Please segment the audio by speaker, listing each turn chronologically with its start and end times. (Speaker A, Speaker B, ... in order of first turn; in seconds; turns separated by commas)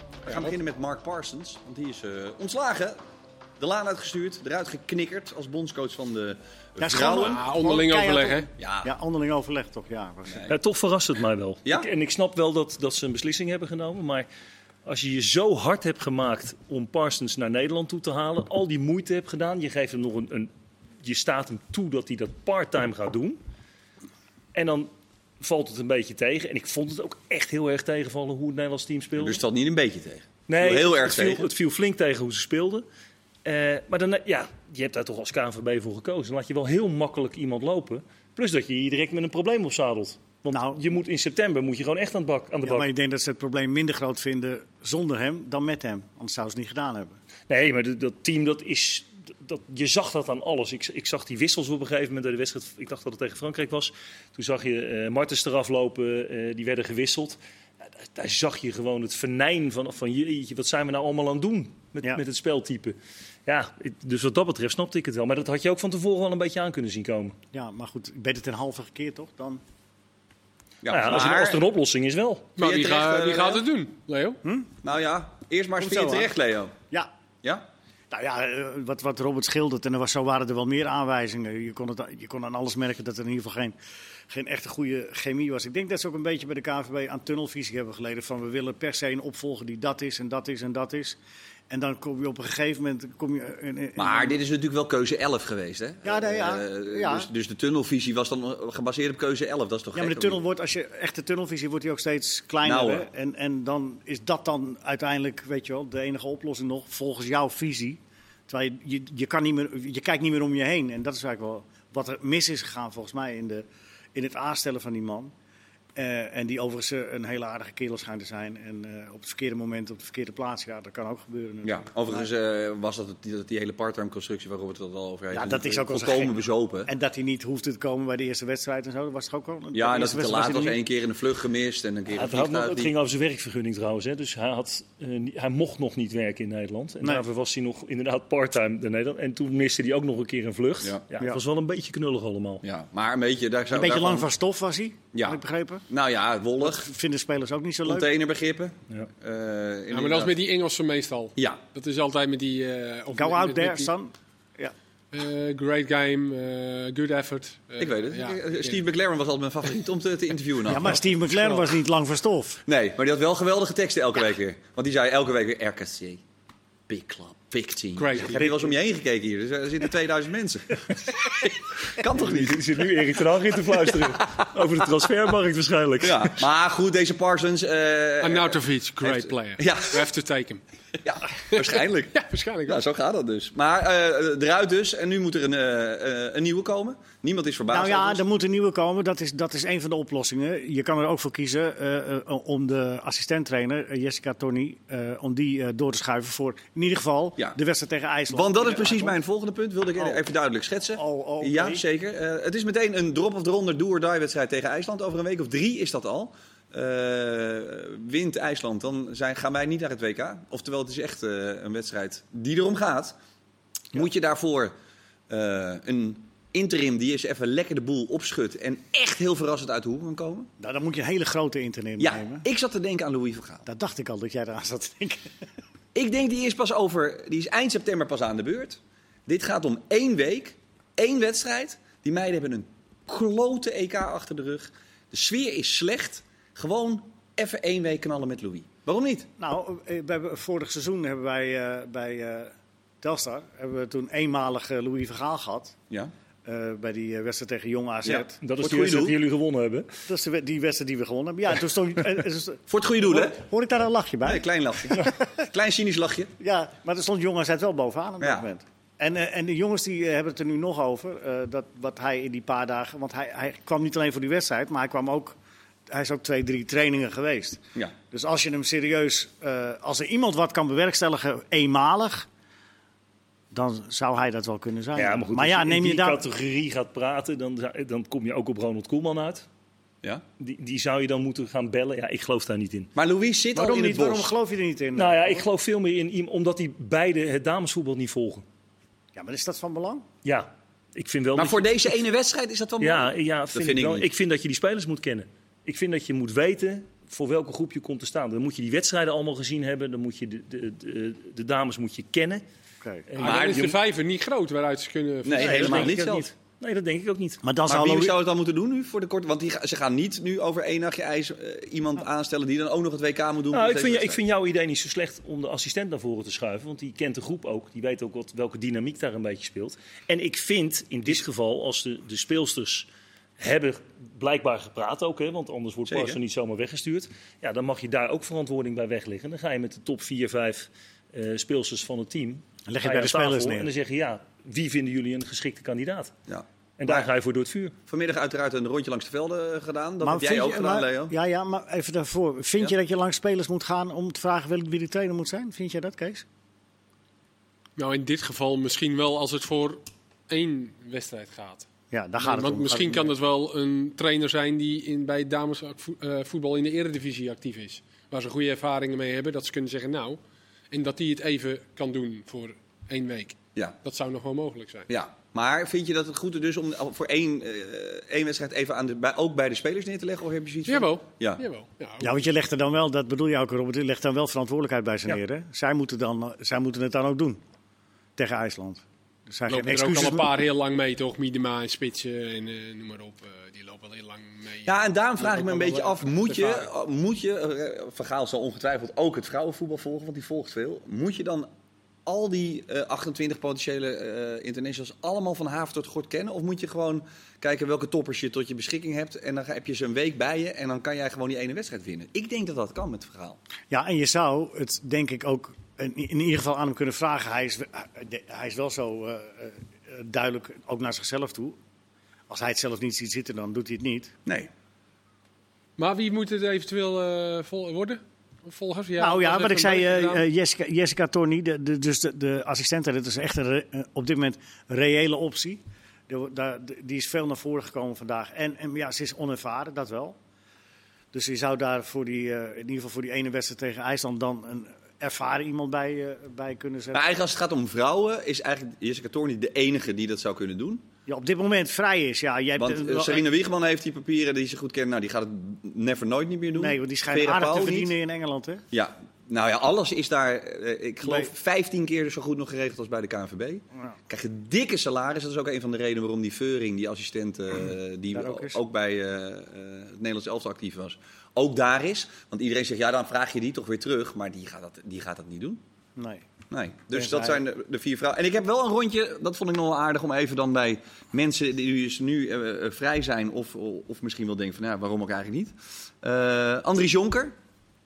Speaker A: 0.2-3.0, Speaker A: 3.6-7.4, Speaker B: 6.8-10.5, Speaker C: 7.1-8.5, Speaker A: 8.6-8.9, Speaker D: 10.5-14.3, Speaker D: 14.8-20.5, Speaker D: 21.0-23.4, Speaker D: 24.5-24.9, Speaker D: 25.4-29.4, Speaker A: 29.2-31.5, Speaker D: 30.5-32.8, Speaker D: 33.4-42.9, Speaker B: 40.5-40.8, Speaker B: 42.6-47.2, Speaker D: 47.5-57.4, Speaker D: 58.1-67.3, Speaker B: 67.5-69.6, Speaker A: 70.8-71.6, Speaker D: 70.9-72.5, Speaker C: 72.6-74.4, Speaker A: 72.6-73.6, Speaker A: 74.8-76.7, Speaker B: 75.8-76.3, Speaker B: 78.1-83.8, Speaker B: 84.3-91.2, Speaker B: 91.7-94.3, Speaker A: 94.0-100.4, Speaker B: 96.0-97.3, Speaker B: 99.9-115.3, Speaker A: 102.6-103.1, Speaker B: 116.0-122.3, Speaker A: 121.6-126.9, Speaker B: 125.3-130.8, Speaker A: 129.7-132.9, Speaker D: 132.1-142.6, Speaker A: 142.6-144.3, Speaker B: 143.7-145.8, Speaker A: 145.1-146.9, Speaker B: 146.6-148.1, Speaker A: 147.8-150.3, Speaker C: 149.9-153.9, Speaker B: 153.1-154.7, Speaker C: 155.1-158.8, Speaker A: 157.8-161.0, Speaker B: 160.7-162.6, Speaker A: 162.7-166.2, Speaker A: 166.9-172.8, Speaker C: 167.9-168.6, Speaker D: 172.1-176.4, Speaker A: 173.9-174.4, Speaker A: 176.0-180.1, Speaker C: 178.2-180.6, Speaker A: 181.0-188.2, Speaker C: 181.5-182.8, Speaker B: 187.7-199.2, Speaker A: 198.3-213.1, Speaker B: 201.0-201.8, Speaker A: 213.9-214.7, Speaker A: 215.3-220.5, Speaker B: 220.6-222.4, Speaker A: 222.0-223.7, Speaker B: 223.7-225.4, Speaker A: 225.9-239.3, Speaker B: 239.4-245.8, Speaker B: 246.4-248.4, Speaker A: 248.0-249.2, Speaker D: 248.4-249.9, Speaker B: 250.1-255.2, Speaker A: 252.7-253.4, Speaker A: 254.2-256.3, Speaker B: 256.4-272.3, Speaker B: 273.5-276.2, Speaker D: 274.9-279.4, Speaker D: 280.4-282.9, Speaker A: 282.9-284.3, Speaker B: 283.5-285.4, Speaker D: 284.9-288.4, Speaker B: 289.1-290.1, Speaker D: 290.2-291.7, Speaker A: 291.3-294.1, Speaker D: 292.8-302.4, Speaker D: 303.1-303.8, Speaker C: 303.2-305.9, Speaker A: 303.2-303.7, Speaker A: 305.2-306.3, Speaker D: 305.3-307.4, Speaker B: 307.4-308.2, Speaker A: 307.7-314.2, Speaker D: 313.5-322.9, Speaker D: 323.4-336.1, Speaker A: 325.9-326.2, Speaker B: 332.7-333.7, Speaker A: 336.3-337.1, Speaker D: 336.8-337.7, Speaker A: 337.9-341.1, Speaker B: 340.0-346.2, Speaker C: 347.8-351.7, Speaker B: 351.9-353.1, Speaker C: 352.2-360.2, Speaker C: 360.7-364.9, Speaker A: 364.9-371.4, Speaker C: 370.7-372.2, Speaker B: 372.0-377.4, Speaker B: 378.2-380.3, Speaker C: 379.5-386.7, Speaker A: 384.6-391.5, Speaker A: 392.0-403.4, Speaker B: 403.7-411.6, Speaker B: 412.3-414.1, Speaker C: 415.8-420.2, Speaker B: 419.0-430.2, Speaker B: 431.1-437.0, Speaker A: 436.9-440.8, Speaker B: 441.1-443.2, Speaker A: 442.6-447.9, Speaker B: 446.6-448.6, Speaker A: 448.7-465.6, Speaker B: 458.1-458.6, Speaker B: 466.0-466.2, Speaker A: 466.5-477.3, Speaker B: 466.9-467.4